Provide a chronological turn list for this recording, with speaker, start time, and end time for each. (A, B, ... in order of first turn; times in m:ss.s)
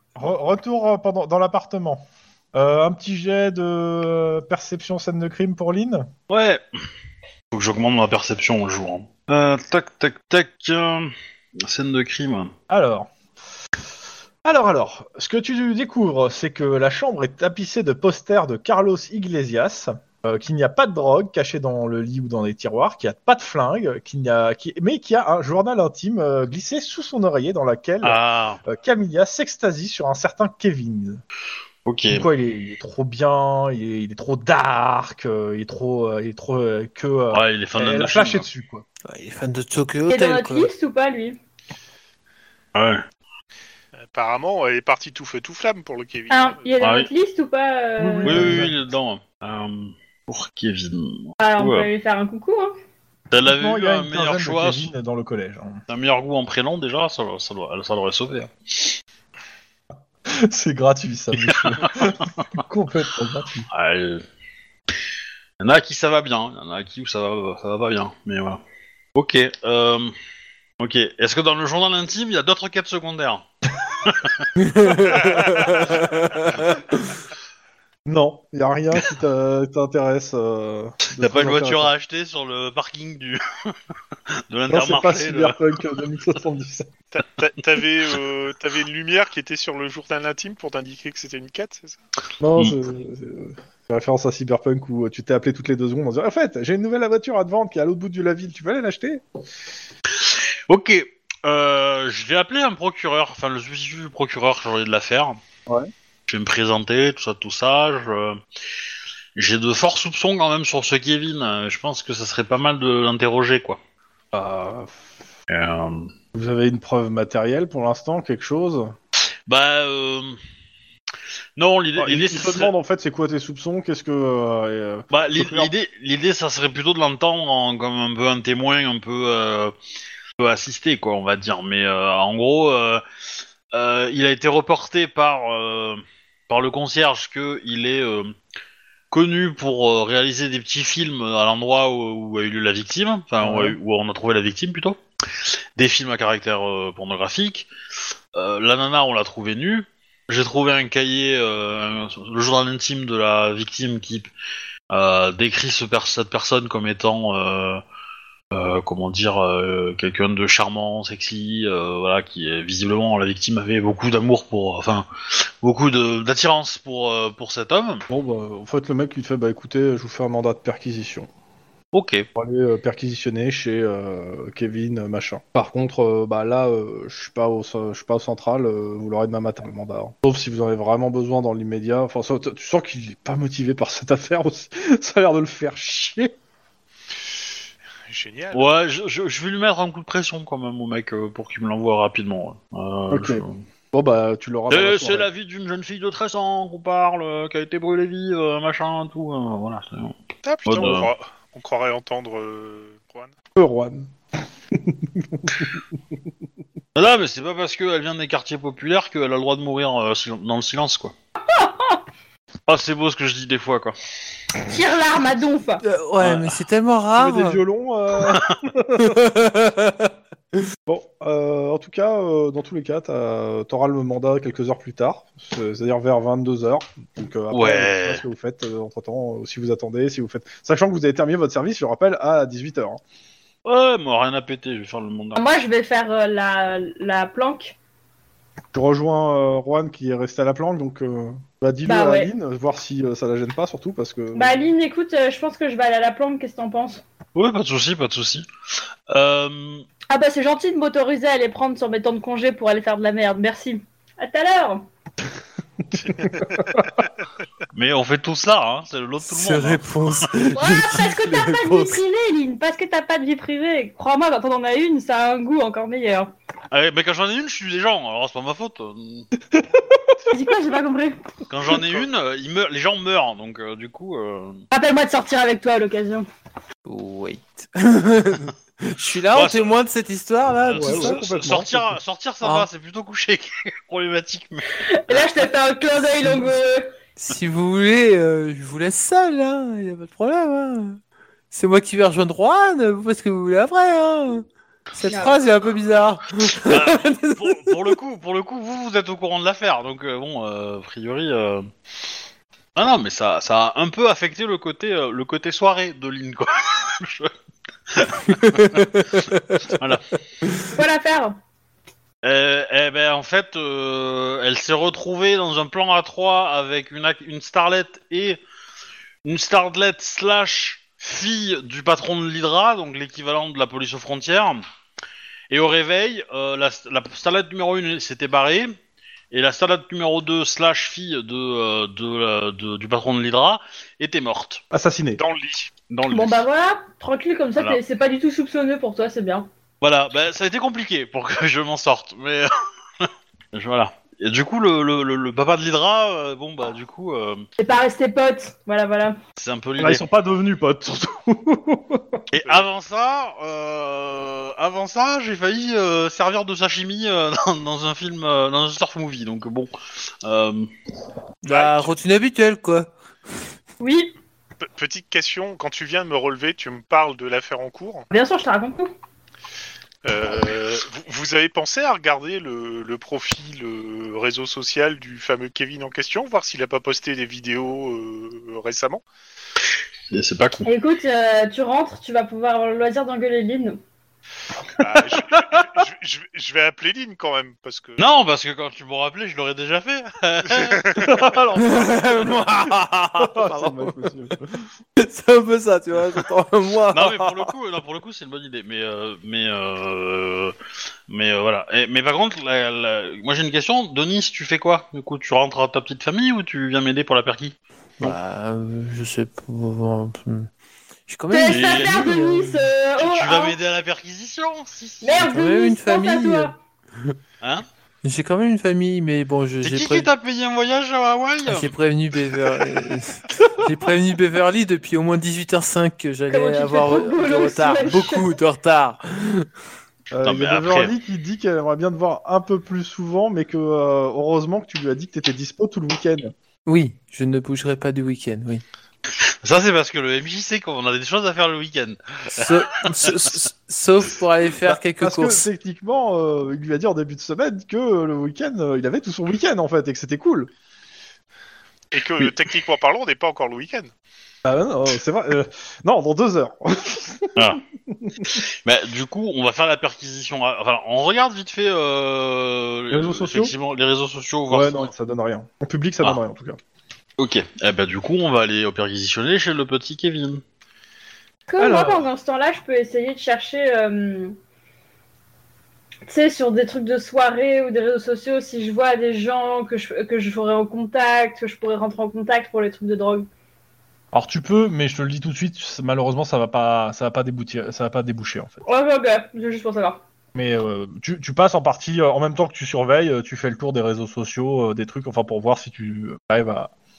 0:00.2-0:06.1 A
0:06.3-0:06.6 B
0:07.5-0:12.5 B
0:12.7-0:13.1 A
0:14.4-0:31.2 A
0:28.0-0:28.6 B
0:31.8-0:32.3 B
0:32.1-0:38.9 A
0:37.3-0:38.5 B
0:39.1-0:40.7 C
0:40.1-0:41.4 D
0:42.8-0:43.0 B
0:44.1-0:46.7 E
0:46.3-0:48.6 D
0:46.8-0:47.1 B
0:48.0-0:48.8 A
0:48.2-0:51.9 B
0:51.4-0:52.7 D
0:53.3-0:54.9 B
0:53.4-0:55.8 A
0:55.9-0:59.0 B
1:00.3-1:03.7 A
1:01.5-1:02.4 B
1:03.7-1:04.2 B
1:05.6-1:08.6 B
1:09.2-1:10.1 B
1:10.8-1:14.5 B
1:14.6-1:17.1 C
1:18.1-1:21.9 A
1:21.1-1:23.8 B
1:24.3-1:25.6 B
1:24.7-1:26.9 A
1:27.1-1:32.0 E
1:32.4-1:39.2 A
1:40.1-1:45.4 B
1:46.3-1:48.4 B
1:49.4-1:53.8 B
1:54.3-1:55.0 A
1:55.5-1:56.1 B
1:56.3-1:59.0 A
1:59.5-2:00.4 B
2:01.6-2:02.7 B
2:02.0-2:05.7 A
2:05.1-2:09.7 B
2:10.4-2:13.0 B
2:13.7-2:18.3 B
2:19.1-2:25.0 B
2:23.4-2:23.8 A
2:25.8-2:27.7 B
2:28.3-2:34.3 B
2:34.9-2:37.8 B
2:38.5-2:48.0 B
2:48.1-2:51.3 A
2:51.9-2:52.3 B
2:52.4-3:06.4 A
3:08.1-3:08.7 E
3:08.5-3:13.6 B
3:13.1-3:15.3 A
3:14.7-3:21.1 B
3:20.4-3:23.3 E
3:23.6-3:24.1 A
3:24.7-3:25.8 A
3:27.0-3:31.1 B
3:31.5-3:32.0 D
3:32.7-3:34.0 B
3:34.7-3:35.8 D
3:35.8-3:37.6 C
3:36.2-3:36.6 B
3:37.2-3:39.3 A
3:38.2-3:38.6 B
3:39.0-3:40.1 C
3:40.9-3:53.0 A
3:47.5-3:48.2 B
3:53.6-3:55.4 B
3:55.4-3:57.8 D
3:58.7-4:04.7 A
4:01.9-4:02.3 D
4:04.3-4:07.0 D
4:07.4-4:08.5 B
4:09.1-4:09.8 B
4:10.1-4:14.9 D
4:16.2-4:16.8 A
4:17.7-4:20.3 B
4:19.2-4:22.0 C
4:20.5-4:26.3 D
4:26.7-4:29.3 B
4:29.5-4:30.3 A
4:30.3-4:31.2 D
4:31.5-4:34.6 B
4:34.7-4:36.3 D
4:36.9-4:41.2 C
4:39.3-4:39.8 B
4:40.6-4:45.3 B
4:40.8-4:42.0 A
4:42.4-4:42.7 C
4:44.8-4:47.0 D
4:47.2-4:51.0 C
4:51.5-4:57.8 C
4:55.0-4:55.4 D
4:56.7-5:01.7 B
5:02.8-5:07.3 B
5:07.9-5:08.9 B
5:08.3-5:09.8 C
5:09.6-5:10.0 B
5:10.4-5:10.7 C
5:10.7-5:11.4 D
5:12.2-5:18.4 B
5:19.2-5:24.6 B
5:25.5-5:28.8 B
5:29.3-5:34.6 B
5:34.7-5:35.2 A
5:35.2-5:35.7 E
5:35.9-5:36.4 B
5:36.1-5:39.5 D
5:39.8-5:42.5 B
5:43.0-5:47.5 B
5:47.6-5:49.2 D
5:49.4-5:50.0 B
5:49.8-5:52.2 A
5:52.3-5:59.7 B
6:00.2-6:00.7 B
6:01.4-6:02.9 C
6:01.5-6:01.9 E
6:03.8-6:04.1 D
6:04.6-6:08.1 E
6:08.1-6:08.9 D
6:10.0-6:19.0 E
6:20.1-6:20.7 B
6:20.7-6:23.8 D
6:24.8-6:28.0 E
6:28.0-6:31.4 B
6:30.5-6:31.2 E
6:31.0-6:32.0 A
6:31.6-6:34.0 C
6:33.2-6:34.7 A
6:35.0-6:37.5 C
6:36.9-6:40.6 B
6:41.1-6:48.2 B
6:48.0-6:50.5 C
6:51.1-6:52.7 C
6:51.3-6:53.6 D
6:51.5-6:52.2 B
6:53.0-6:55.2 B
6:55.0-6:56.6 D
6:55.2-6:57.2 C
6:58.0-7:00.1 C
6:59.6-7:01.7 B
7:01.5-7:09.5 C
7:02.5-7:02.8 B
7:06.3-7:08.3 D
7:10.1-7:16.3 A
7:10.2-7:10.9 B
7:16.7-7:18.6 C
7:19.1-7:23.4 B
7:22.3-7:25.5 C
7:24.6-7:30.5 A
7:31.9-7:33.9 E
7:34.4-7:38.4 A
7:37.4-7:37.6 B
7:38.2-7:44.9 B
7:42.9-7:43.5 A
7:44.5-7:46.6 A
7:47.2-7:50.4 B
7:51.5-7:54.4 D
7:51.6-7:52.1 A
7:56.1-8:03.3 D
8:04.1-8:08.6 A
8:08.7-8:10.0 D
8:10.3-8:16.7 A